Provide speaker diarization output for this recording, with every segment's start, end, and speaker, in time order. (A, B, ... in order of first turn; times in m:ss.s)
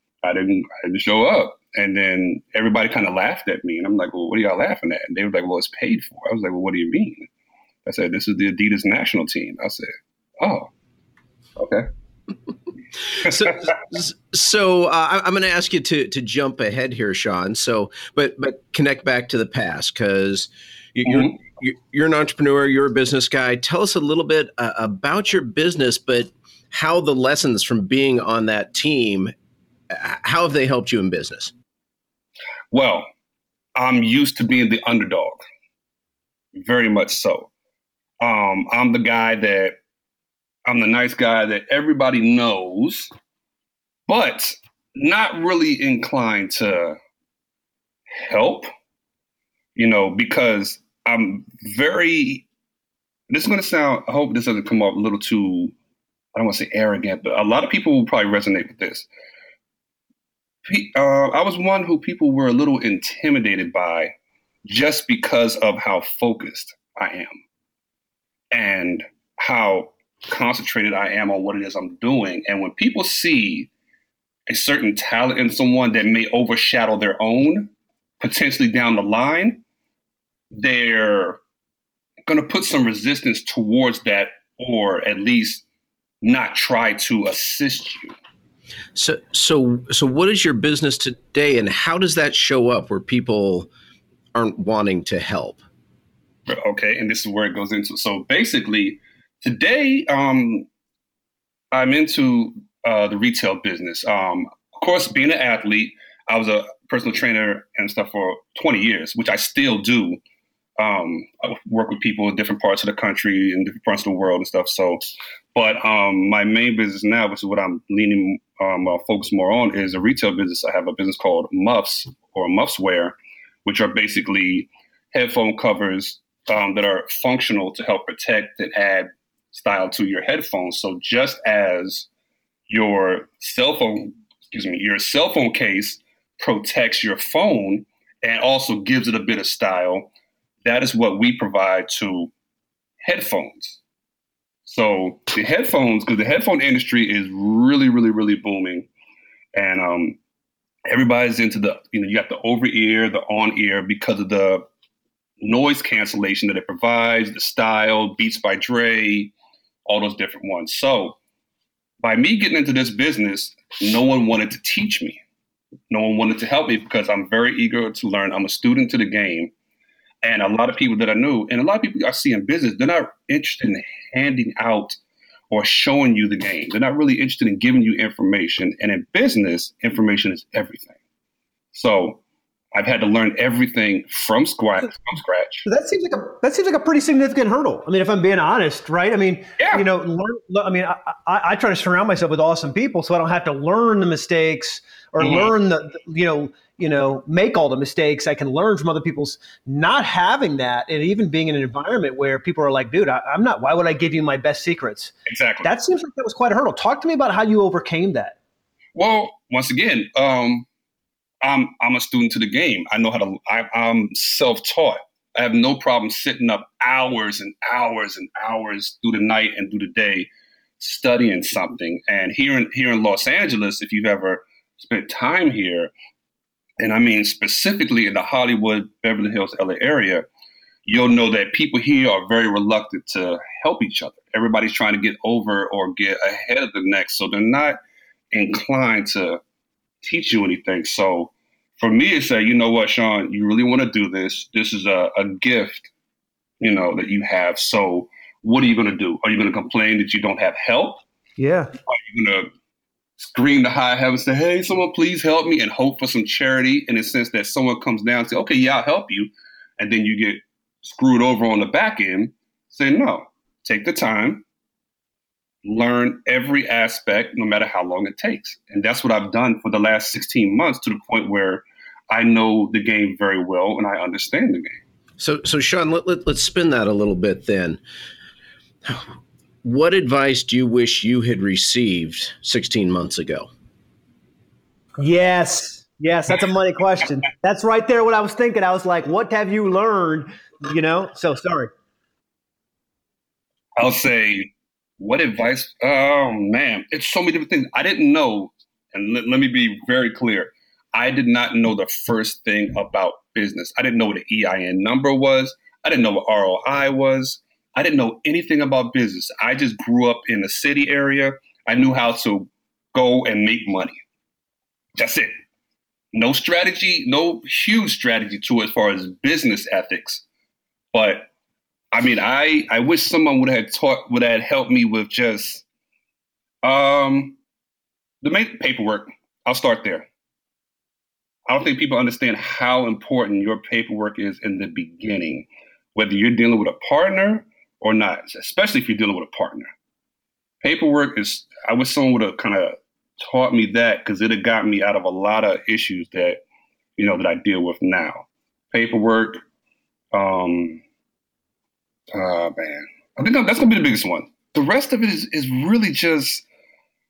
0:00.2-0:07.3 A
0:07.8-0:10.7 A
0:11.6-0:11.9 A
0:13.2-0:29.3 B
0:21.0-0:21.4 A
0:29.9-0:31.5 B
0:32.7-0:33.1 A
0:33.8-0:35.4 A
0:36.5-0:37.5 A
0:38.2-0:39.8 A
0:40.6-0:43.1 A
0:44.1-0:47.0 A
0:48.1-0:48.7 A
0:49.8-0:52.4 A
0:53.3-0:55.7 A
0:56.3-0:59.1 A
1:00.6-1:04.1 A
1:04.6-1:07.4 A
1:08.5-1:13.7 A
1:14.5-1:19.6 A
1:20.5-1:21.4 A
1:22.3-1:25.6 A
1:26.2-1:28.1 A
1:28.9-1:33.7 B
1:34.3-1:35.6 B
1:36.5-1:40.7 A
1:41.7-1:50.2 A
1:50.8-1:55.0 A
1:55.5-2:12.1 A
2:12.7-2:20.1 A
2:20.6-2:22.3 A
2:23.0-2:23.8 A
2:24.6-2:28.9 A
2:29.5-2:30.2 A
2:30.9-2:34.6 A
2:35.4-2:39.3 A
2:39.8-2:41.2 A
2:42.0-2:45.2 A
2:45.9-2:49.5 A
2:50.2-2:55.0 A
2:55.5-3:00.9 A
3:01.7-3:02.2 A
3:02.7-3:05.6 A
3:05.6-3:28.4 C
3:09.6-3:09.8 A
3:15.2-3:15.5 A
3:25.2-3:25.7 A
3:28.9-3:30.6 A
3:31.4-3:40.3 A
3:40.8-3:45.9 A
3:46.8-3:50.2 A
3:50.8-3:57.8 A
3:58.3-3:59.4 A
4:00.0-4:05.9 A
4:06.6-4:11.0 A
4:11.4-4:11.7 C
4:11.9-4:12.5 A
4:13.2-4:24.4 A
4:25.6-4:34.8 A
4:35.2-4:37.8 B
4:38.8-4:39.1 B
4:39.6-4:43.5 B
4:45.0-4:51.7 C
4:53.8-5:14.0 A
5:15.0-5:15.3 A
5:16.1-5:20.2 A
5:20.9-5:21.3 A
5:21.9-5:25.6 A
5:26.6-5:27.4 A
5:28.2-5:30.0 A
5:31.5-5:39.7 A
5:40.6-5:46.4 A
5:47.0-5:49.4 A
5:50.1-5:50.8 A
5:52.1-5:56.4 A